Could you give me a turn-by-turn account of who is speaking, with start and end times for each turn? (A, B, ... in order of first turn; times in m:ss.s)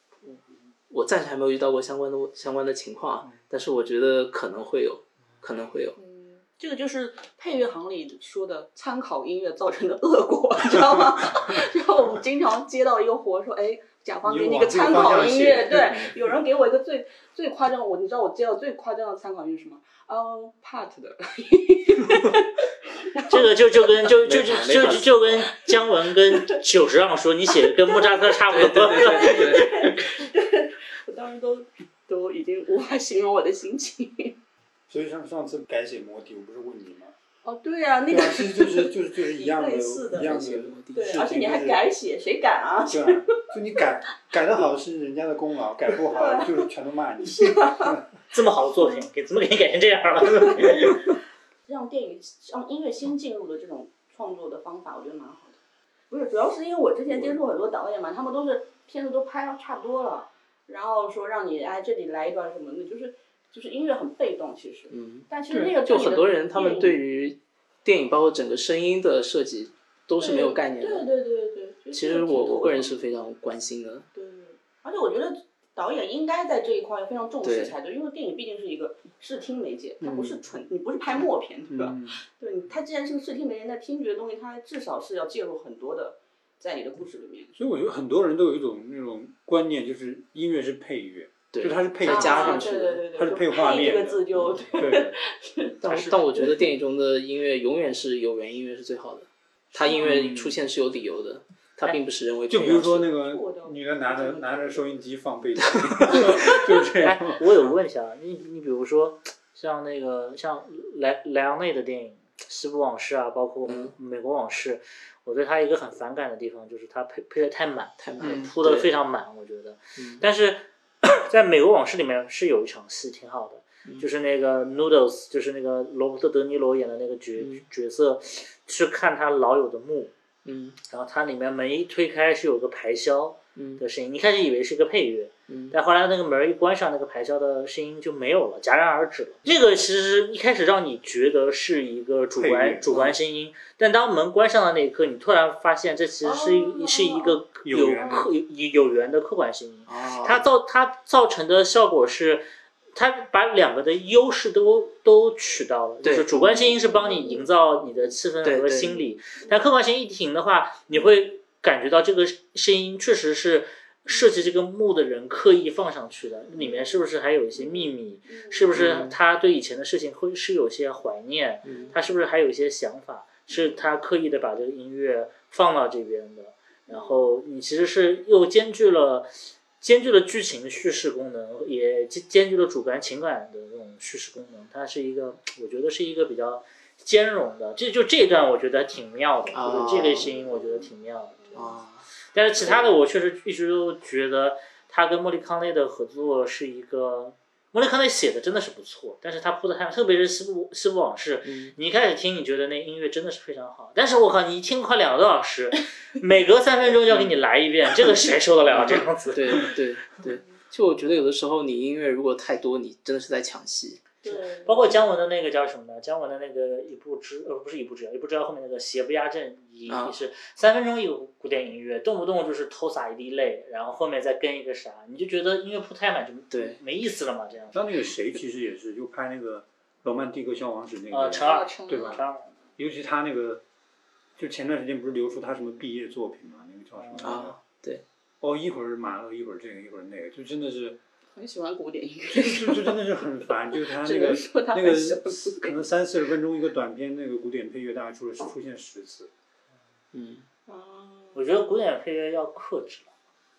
0:00.9-0:06.0 A
0:06.0-0:23.4 B
0:14.2-0:16.1 C
0:23.3-0:29.8 D
0:24.1-0:25.5 A
0:27.9-0:28.2 B
0:28.5-0:29.7 A
0:28.9-0:34.4 B
0:34.9-0:37.1 C
0:37.4-0:40.3 B
0:38.1-0:41.8 C
0:40.1-0:41.2 A
0:40.9-0:43.3 B
0:42.9-0:48.0 C
0:45.9-0:46.7 B
0:47.2-0:48.0 B
0:48.3-0:51.0 D
0:50.3-0:51.0 B
0:51.6-0:55.6 B
0:56.1-1:07.0 B
1:04.9-1:11.1 A
1:10.2-1:13.0 B
1:11.9-1:14.1 A
1:14.1-1:27.5 B
1:17.4-1:17.7 A
1:20.0-1:20.4 A
1:21.7-1:22.2 C
1:27.6-1:35.2 C
1:31.5-1:32.8 A
1:32.0-1:36.7 B
1:35.8-1:43.1 A
1:39.8-1:40.3 B
1:40.0-1:40.6 C
1:42.5-1:47.4 C
1:43.1-1:44.8 B
1:45.6-1:46.5 A
1:47.0-2:10.1 D
1:53.6-1:53.9 A
1:58.0-1:58.9 A
1:58.2-1:58.5 C
2:00.0-2:00.2 A
2:07.4-2:07.6 A
2:10.4-2:10.8 A
2:10.9-3:11.7 D
2:13.6-2:13.8 A
2:15.5-2:15.7 A
2:22.4-2:23.0 C
2:26.2-2:27.4 B
2:27.6-2:28.3 C
2:28.0-2:28.3 B
2:29.9-2:30.4 A
2:36.4-2:37.5 B
2:38.4-2:38.9 A
2:39.3-2:39.6 B
2:46.6-2:46.9 B
2:47.6-2:48.8 B
2:48.7-2:49.1 A
2:51.6-2:51.9 A
2:51.7-2:52.0 B
2:53.5-2:53.8 B
2:56.9-2:57.3 B
3:09.5-3:10.3 A
3:10.2-3:11.8 B
3:11.5-3:12.0 A
3:12.3-3:29.7 D
3:12.6-3:12.9 B
3:21.4-3:21.7 A
3:27.1-3:27.4 A
3:28.7-3:34.4 A
3:34.2-3:35.0 B
3:34.6-3:47.8 D
3:39.9-3:40.2 A
3:46.5-3:46.8 A
3:47.7-3:52.2 C
3:51.1-3:52.5 D
3:51.4-3:52.2 B
3:52.8-3:53.6 C
3:54.4-3:57.6 C
3:57.0-3:57.4 D
3:57.2-3:58.0 A
3:58.4-4:01.0 C
4:01.3-4:03.0 B
4:02.4-4:09.3 C
4:03.7-4:05.8 B
4:10.1-4:10.5 A
4:10.7-4:11.4 B
4:11.3-4:13.1 D